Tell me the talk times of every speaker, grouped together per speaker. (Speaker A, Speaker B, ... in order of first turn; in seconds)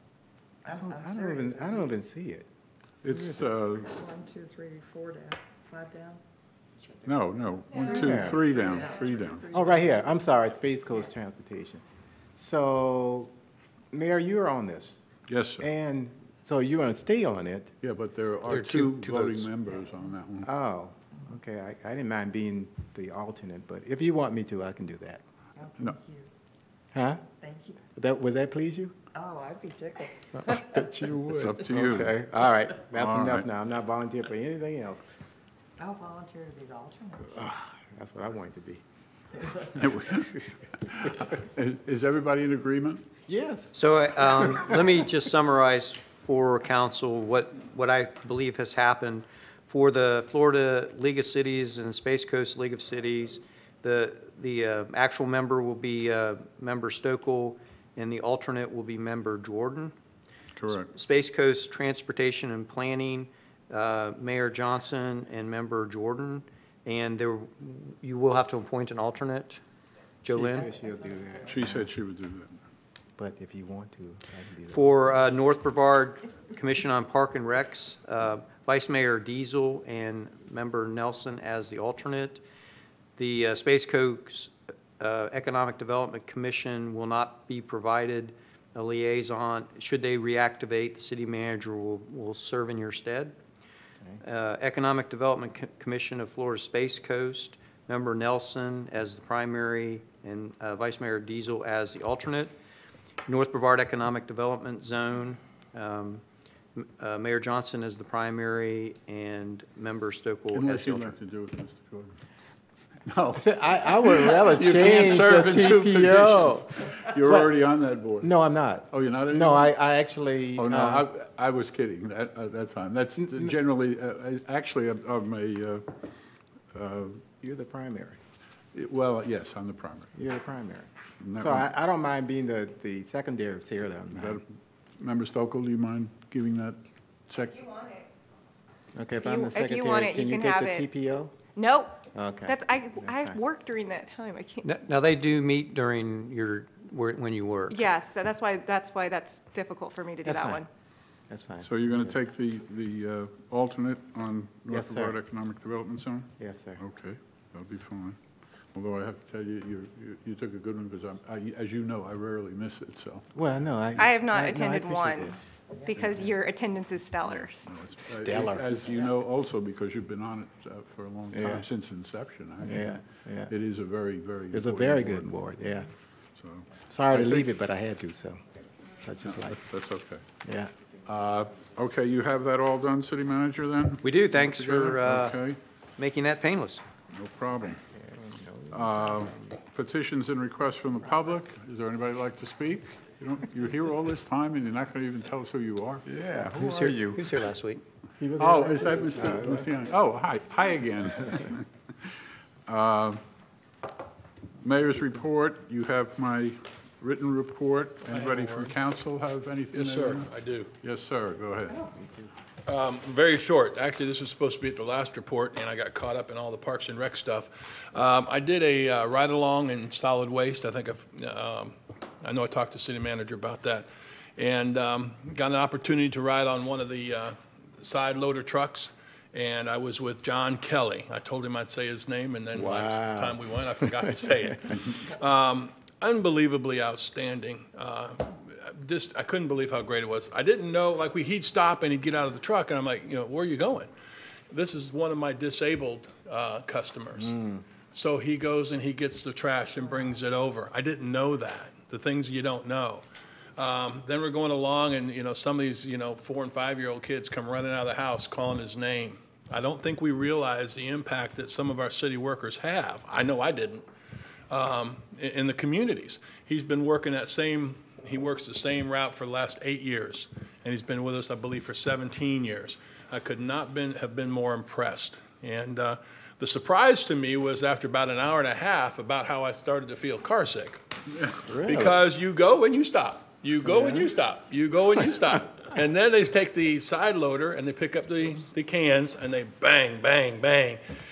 Speaker A: 0.7-2.0, 3.8-6.2, 8.1-10.2, 25.6-26.3, 27.4-27.8, 29.1-30.6, 35.8-37.4, 70.6-71.4
Speaker B: 0.7-2.5, 7.9-8.5, 9.5-11.8, 12.3-13.3, 13.9-15.0, 15.6-17.7, 20.4-25.2, 26.9-27.2, 27.9-28.9, 30.4-35.0, 37.3-38.8, 43.3-44.8, 70.3-71.9, 73.2-75.2, 113.4-116.7, 117.2-117.5, 118.2-121.1, 127.4-128.2, 130.2-134.4, 138.9-141.4, 142.2-143.4, 150.2-150.7, 151.3-152.2, 154.7-155.2, 156.4-156.8, 163.3-165.4, 165.9-166.3, 168.1-168.8, 171.3-171.7, 172.6-173.5, 174.5-175.9, 176.9-178.4, 179.0-179.6, 180.4-180.7, 188.0-189.6, 196.1-197.2, 198.2-199.8, 211.8-212.3, 232.5-234.8, 247.3-247.6, 281.5-282.0
Speaker C: 3.0-3.9, 7.0-9.4, 15.3-15.7, 17.8-20.5, 31.3-32.1, 32.9-33.5, 39.8-43.0, 60.6-60.9, 71.5-72.6, 110.5-112.2, 113.1-118.3, 118.9-119.7, 120.6-125.9, 126.7-127.2, 128.7-130.1, 131.2-131.7, 134.1-134.4, 135.0-137.8, 151.6-158.2, 158.7-163.3, 167.3-175.5, 176.3-177.5, 179.3-180.2, 181.1-185.6, 187.1-187.8, 188.7-196.1, 198.4-201.7, 202.7-203.2, 204.6-210.3, 210.8-211.8
Speaker D: 18.5-19.5, 43.8-59.9, 60.8-69.6, 70.2-70.7, 74.7-82.4, 83.2-93.3, 94.2-102.5, 103.3-106.2, 106.8-111.2, 144.6-147.9, 184.0-185.4, 186.0-186.8, 196.4-197.8
Speaker E: 139.2-140.9, 141.6-144.7, 147.7-150.7, 164.1-167.8
Speaker F: 208.1-208.7, 209.7-210.7, 212.7-243.9, 244.5-247.3, 247.9-253.1, 253.6-263.9, 264.5-280.8, 281.6-290.8